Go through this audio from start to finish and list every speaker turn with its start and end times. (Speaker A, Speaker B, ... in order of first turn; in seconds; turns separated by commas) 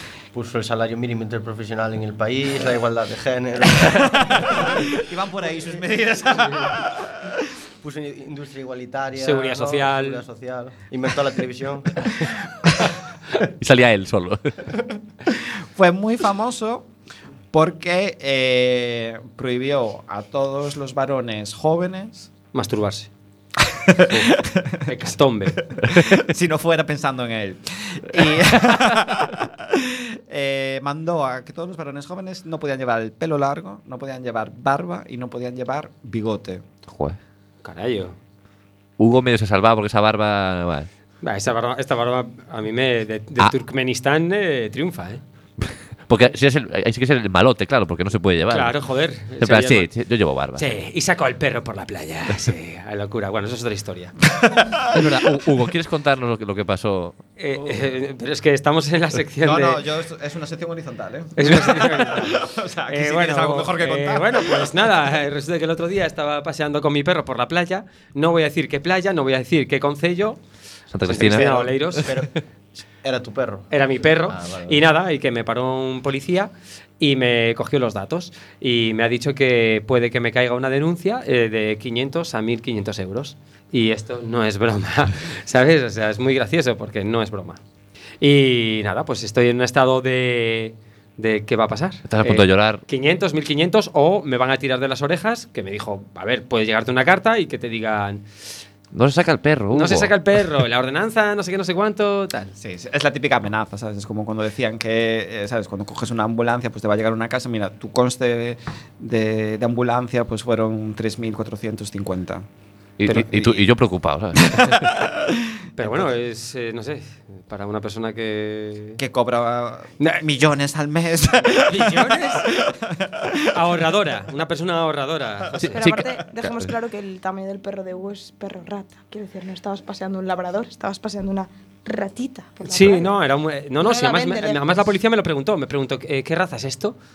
Speaker A: 0.3-4.8, Speaker B: 3.9-7.4, Speaker A: 7.8-12.3, Speaker C: 9.2-10.2, Speaker D: 13.4-14.6, Speaker B: 15.3-16.9, Speaker B: 17.5-22.3, Speaker C: 22.5-23.1, Speaker B: 23.6-24.9, Speaker C: 24.1-25.6, Speaker B: 25.6-36.6, Speaker D: 36.9-37.2, Speaker C: 37.6-38.1, Speaker D: 39.0-40.9, Speaker C: 41.2-45.2, Speaker D: 46.1-48.8, Speaker C: 48.5-49.9, Speaker D: 49.4-50.7, Speaker C: 50.6-54.1, Speaker B: 54.4-55.0, Speaker D: 54.9-57.2, Speaker C: 57.4-59.8, Speaker B: 59.4-64.9, Speaker C: 61.4-70.4, Speaker D: 70.9-71.5, Speaker C: 71.1-72.1, Speaker A: 71.1-72.4, Speaker A: 73.0-73.7, Speaker C: 73.7-87.6, Speaker A: 74.3-74.8, Speaker C: 88.2-98.2, Speaker D: 92.1-92.8, Speaker D: 98.9-100.1, Speaker C: 99.7-102.5, Speaker B: 102.6-112.4, Speaker D: 113.0-114.9, Speaker B: 113.1-113.6, Speaker B: 114.4-116.1, Speaker C: 115.8-119.0, Speaker B: 119.0-123.6, Speaker C: 121.6-122.5, Speaker C: 123.5-125.8, Speaker D: 125.6-126.7, Speaker E: 125.7-133.1, Speaker C: 132.7-136.9, Speaker E: 133.8-134.8